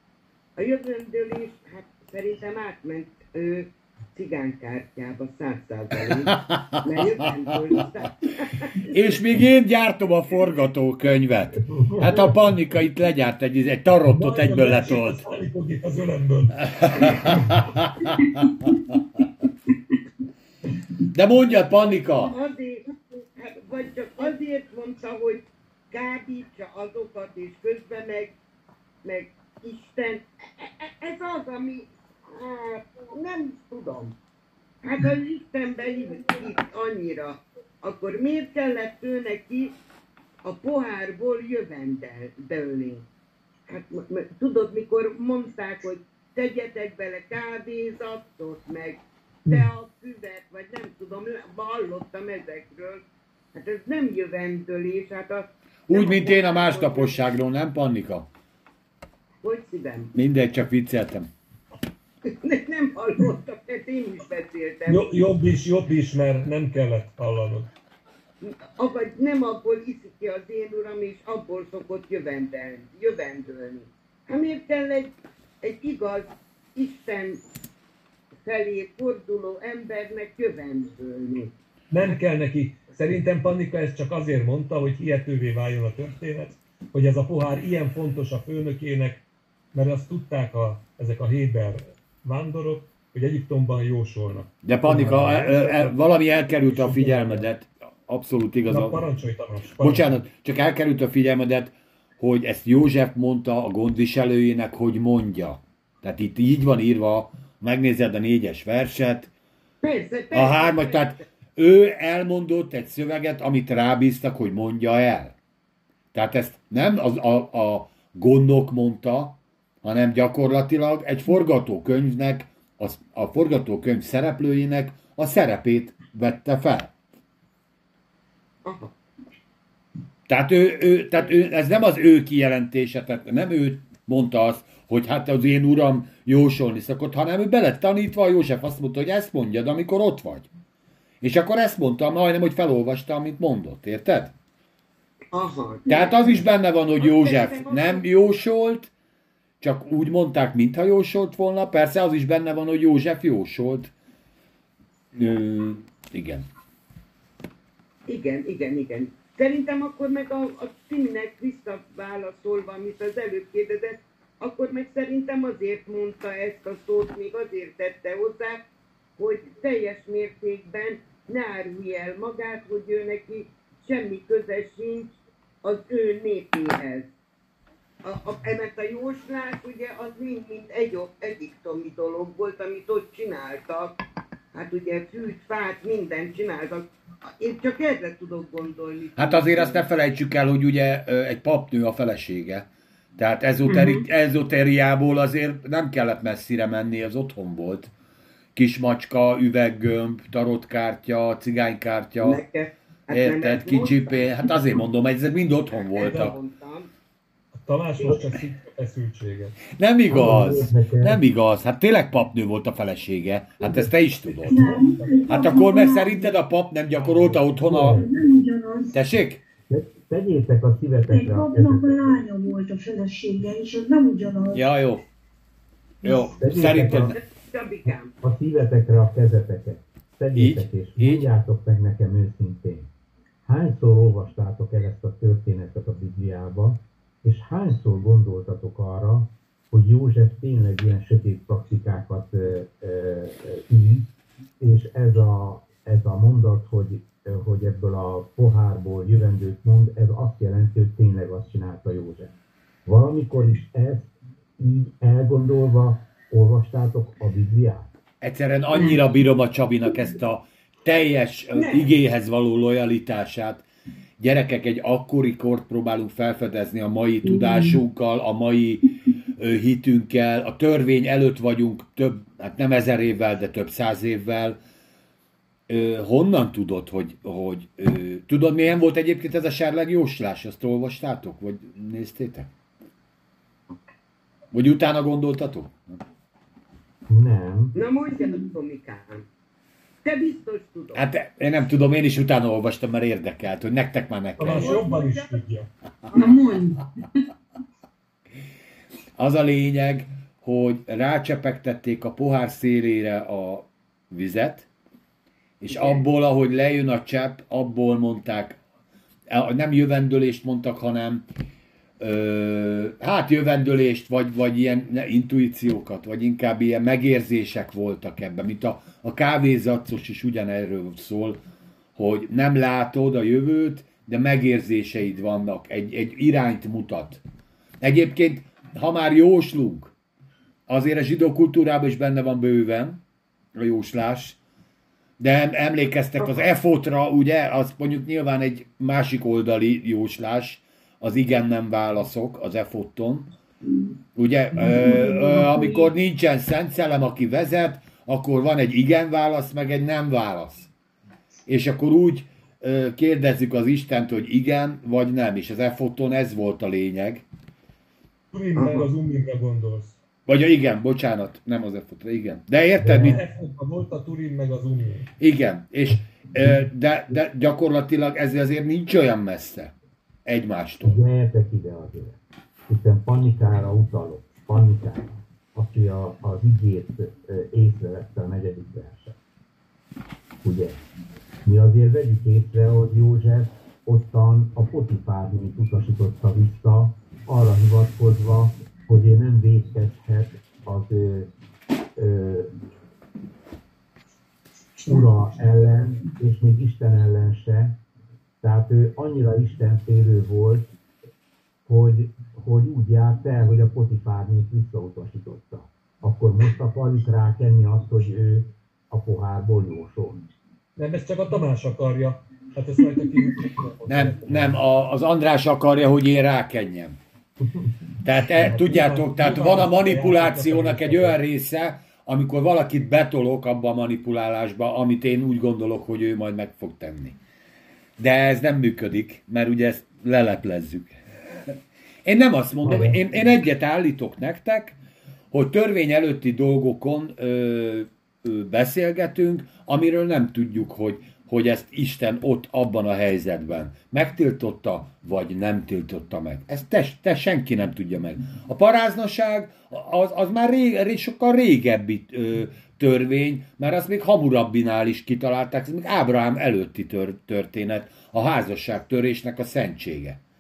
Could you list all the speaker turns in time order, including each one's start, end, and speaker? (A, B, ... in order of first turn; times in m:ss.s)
0:00.6-0:09.0 A
0:06.1-0:07.0 B
0:08.9-0:15.3 B
0:11.8-0:12.3 C
0:14.1-0:17.7 C
0:16.8-0:18.2 B
0:21.1-0:22.3 B
0:22.2-0:28.3 A
0:29.0-0:34.2 A
0:34.8-0:39.8 A
0:40.4-0:43.0 A
0:43.7-0:53.0 A
0:53.5-0:57.2 A
0:55.9-0:58.3 B
0:59.4-1:00.1 A
1:00.2-1:01.3 B
1:02.2-1:05.2 A
1:04.9-1:07.7 C
1:08.4-1:17.4 A
1:18.4-1:22.1 A
1:21.9-1:36.0 C
1:34.6-1:39.0 B
1:36.7-1:37.4 C
1:38.7-1:40.2 C
1:39.8-1:49.3 B
1:49.8-1:51.2 A
1:50.3-1:55.4 B
1:56.1-2:06.9 B
2:08.6-2:08.9 A
2:10.3-2:20.5 B
2:21.2-2:24.3 B
2:25.3-2:26.4 A
2:25.9-2:26.2 D
2:25.9-2:28.9 B
2:27.0-2:28.0 A
2:29.6-2:33.9 B
2:35.1-2:36.5 B
2:38.1-2:48.6 A
2:49.2-2:55.1 A
2:55.6-2:57.1 A
2:58.0-3:04.0 A
3:04.5-3:09.8 A
3:09.2-3:17.9 B
3:13.6-3:14.0 E
3:18.6-3:22.4 B
3:22.2-3:24.8 A
3:23.1-3:26.3 B
3:25.9-3:26.9 A
3:27.6-3:29.6 C
3:29.7-3:38.1 B
3:30.1-3:31.2 F
3:34.5-3:36.2 D
3:37.0-3:38.1 F
3:37.8-3:39.0 D
3:38.9-3:39.4 B
3:39.7-3:42.2 F
3:41.1-3:44.6 D
3:44.5-3:45.0 B
3:46.0-3:47.2 B
3:46.1-3:47.2 F
3:47.1-3:48.1 A
3:47.9-3:52.9 F
3:50.3-3:51.3 B
3:53.4-4:12.3 F
4:12.9-4:17.9 F
4:18.2-4:23.7 B
4:18.7-4:19.0 E
4:21.6-4:21.9 A
4:24.2-4:34.6 B
4:27.2-4:27.8 E
4:35.7-4:42.5 B
4:44.5-4:46.0 B
4:47.1-4:47.8 F
4:47.8-4:49.3 A
4:50.0-4:51.0 A
4:51.0-4:54.8 B
4:54.4-4:55.7 C
4:54.4-4:55.4 A
4:56.1-4:56.4 A
4:56.1-4:56.9 E
4:59.2-5:04.7 B
5:05.6-5:08.6 B
5:05.7-5:06.0 A
5:09.3-5:11.3 B
5:12.0-5:21.4 B
5:22.0-5:27.2 B
5:27.8-5:29.9 B
5:30.7-5:33.0 B
5:33.6-5:34.4 B
5:35.2-5:43.3 B
5:44.2-5:50.7 B
5:44.7-5:45.7 E
5:51.5-5:57.2 B
5:58.3-6:00.0 C
5:58.6-5:58.9 A
6:00.3-6:03.2 B
6:02.8-6:03.2 F
6:02.8-6:05.1 C
6:05.2-6:09.7 B
6:10.2-6:11.0 B
6:10.8-6:19.2 F
6:20.4-6:20.8 F
6:21.4-6:31.3 F
6:32.0-6:32.5 F
6:34.9-6:37.8 F
6:38.4-6:40.7 F
6:41.7-6:50.2 F
6:50.8-6:54.6 C
6:53.9-6:57.0 B
6:58.0-7:07.2 B
6:58.4-7:01.2 C
7:08.0-7:11.0 B
7:11.5-7:14.8 B
7:12.6-7:13.0 F
7:15.3-7:40.2 B